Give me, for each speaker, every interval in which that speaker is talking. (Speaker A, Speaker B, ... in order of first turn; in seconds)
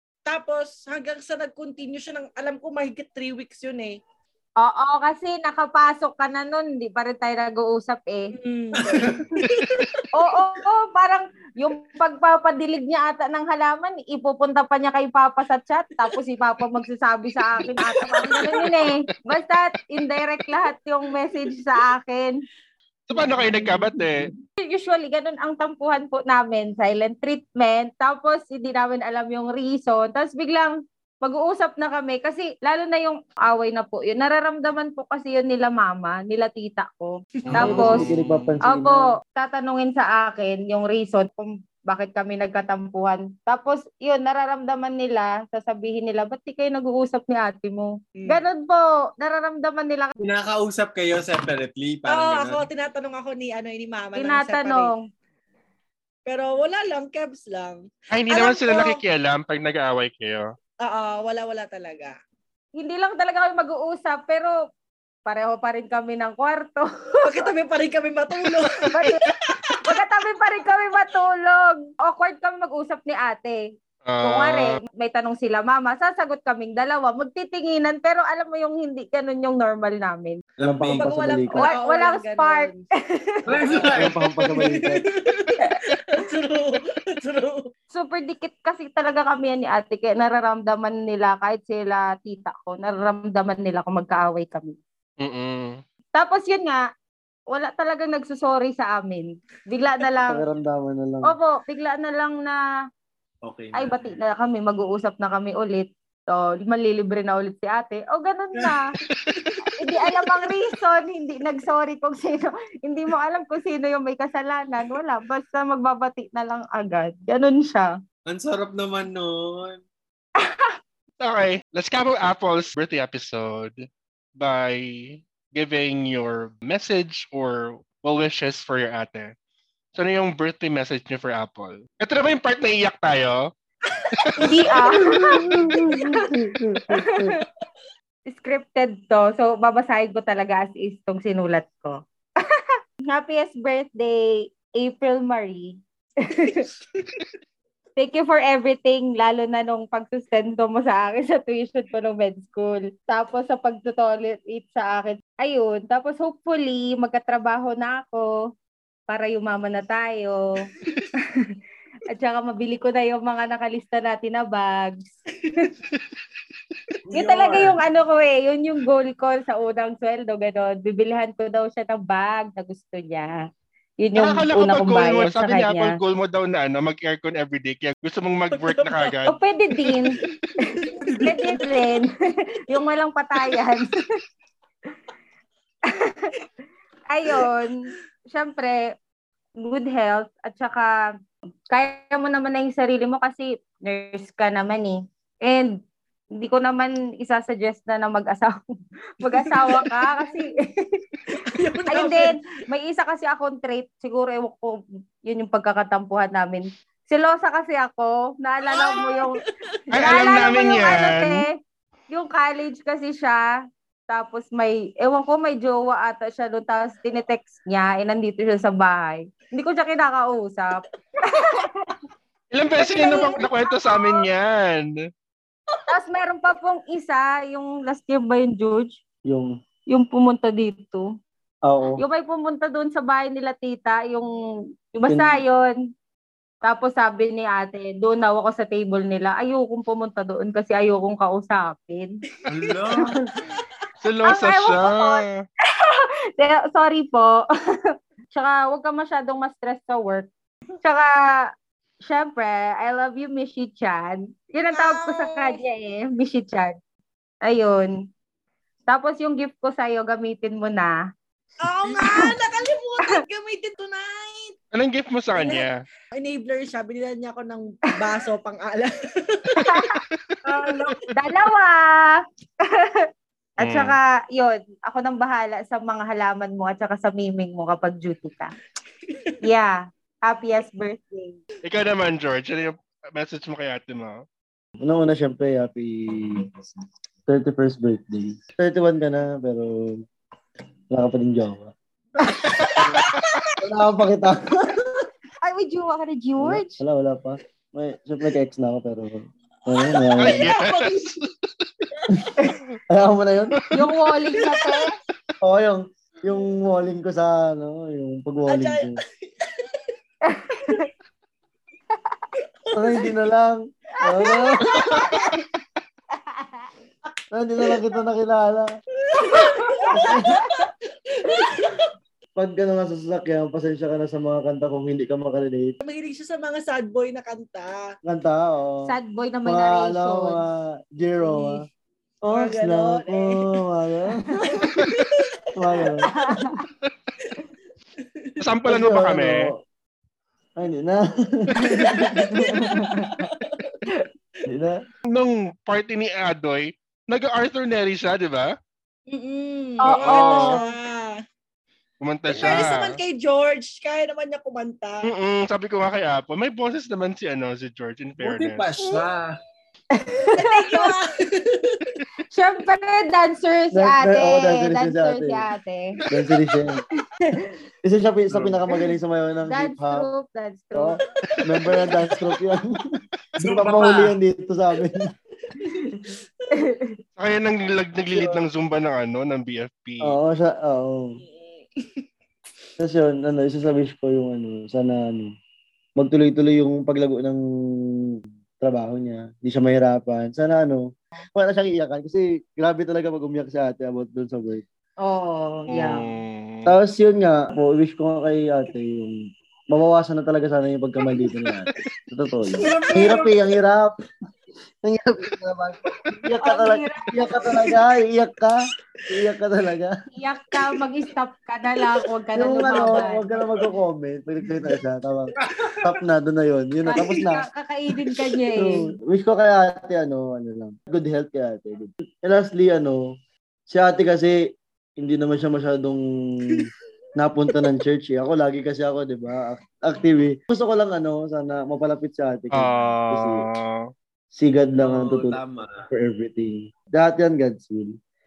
Speaker A: 0.3-4.0, 8.4-10.0, 17.6-18.6, 37.5-37.7, 48.2-48.4, 52.1-54.9, 56.3-59.0, 60.8-62.1, 67.2-69.9, 80.9-82.9, 83.6-84.0, 84.5-87.7, 133.9-136.2, 146.4-147.3, 160.8-161.1, 178.6-179.1, 180.8-181.8, 199.4-199.9, 201.3-202.4, 208.7-209.3, 222.8-223.5, 242.5-243.6, 254.7-255.6, 261.6-264.6, 265.4-269.9, 279.1-279.3, 292.8-293.6, 299.7-301.2, 304.5-304.8, 308.5-309.8, 312.6-313.2, 314.6-315.4, 319.1-321.9, 325.8-327.8, 332.3-333.6, 334.5-335.9, 338.0-338.4, 342.1-343.8, 349.1-351.2, 352.3-355.1, 360.3-362.0, 375.6-376.1, 381.2-382.1, 416.9-417.3
Speaker B: 4.6-8.3, 10.1-22.4, 24.6-38.1, 38.7-50.1, 54.2-55.0, 62.8-64.5, 65.3-67.5, 68.9-69.3, 69.8-73.6, 74.2-80.4, 81.5-83.7, 87.9-94.7, 96.2-96.8, 97.5-100.4, 101.3-102.6, 103.7-108.9, 109.8-117.9, 120.4-120.7, 134.4-135.5, 136.9-137.3, 138.3-142.0, 142.5-146.7, 148.0-158.3, 159.1-160.6, 162.1-165.1, 167.1-173.4, 174.0-175.9, 179.3-182.1, 182.7-184.1, 185.9-186.3, 187.1-187.8, 188.3-188.9, 189.6-190.9, 191.7-195.7, 196.4-198.5, 199.2-201.0, 201.9-209.4, 209.9-211.5, 212.1-213.5, 214.1-222.0, 222.8-223.5, 225.9-228.9, 229.9-231.0, 232.0-234.3, 234.9-235.8, 236.6-242.2, 244.2-247.4, 248.3-250.3, 250.8-251.1, 252.1-256.8, 257.4-257.9, 258.9-260.9, 261.9-262.3, 269.6-270.0, 271.1-273.0, 273.6-278.5, 279.4-281.4, 292.4-292.8, 295.4-296.8, 303.7-304.9, 310.3-310.9, 314.1-314.4, 319.3-320.7, 328.9-330.4, 331.2-331.6, 336.1-336.6, 341.7-343.2, 349.8-350.8, 359.9-360.9, 362.3-365.9, 369.5-371.0, 375.6-376.9, 395.0-396.1, 406.4-407.6, 410.1-413.2, 416.9-418.9
Speaker C: 8.8-9.4, 50.2-52.7, 80.6-81.2, 83.5-84.2, 103.4-104.2, 118.3-119.8, 167.1-167.8, 242.5-243.2, 270.4-271.0, 358.2-359.4, 373.4-374.2, 402.6-403.3, 415.4-416.0, 434.8-435.9
Speaker D: 23.1-24.3, 37.5-38.5, 58.1-60.5, 74.1-74.8, 95.2-95.8, 109.2-109.6, 121.2-123.8, 124.4-129.3, 129.9-133.5, 134.1-134.6, 174.2-179.4, 209.9-211.4, 222.5-224.9, 244.0-245.4, 264.7-265.8, 273.6-274.0, 281.6-284.2, 292.5-293.4, 300.2-301.3, 338.4-339.5, 345.1-348.6, 349.9-350.6, 352.0-353.0, 355.0-358.6, 368.3-368.6, 377.2-380.2, 395.7-396.8, 432.5-433.9
Speaker E: 37.5-39.1, 80.6-81.7, 84.0-85.0, 100.3-101.3, 135.1-137.3, 229.3-229.6, 231.7-232.0, 235.1-235.4, 284.8-286.5, 287.3-290.0, 290.9-291.7, 293.6-294.8, 296.4-300.5, 302.9-303.6, 305.4-309.0, 312.8-315.1, 317.3-318.7, 319.9-320.4, 322.4-325.8, 328.1-328.9, 329.5-331.6, 332.2-334.7, 335.6-336.1, 338.7-339.6, 340.6-342.8, 344.5-344.8, 363.7-365.5, 366.1-366.8, 367.8-370.1, 370.7-372.8, 373.4-375.1, 378.1-378.4, 380.0-381.2, 382.8-385.3, 386.0-387.4, 388.6-394.6, 396.7-399.2, 399.7-403.9, 404.8-408.6, 409.1-409.9, 412.4-417.4, 418.6-423.0, 423.7-424.4, 425.0-426.7, 427.2-433.4, 434.3-435.4, 435.9-438.0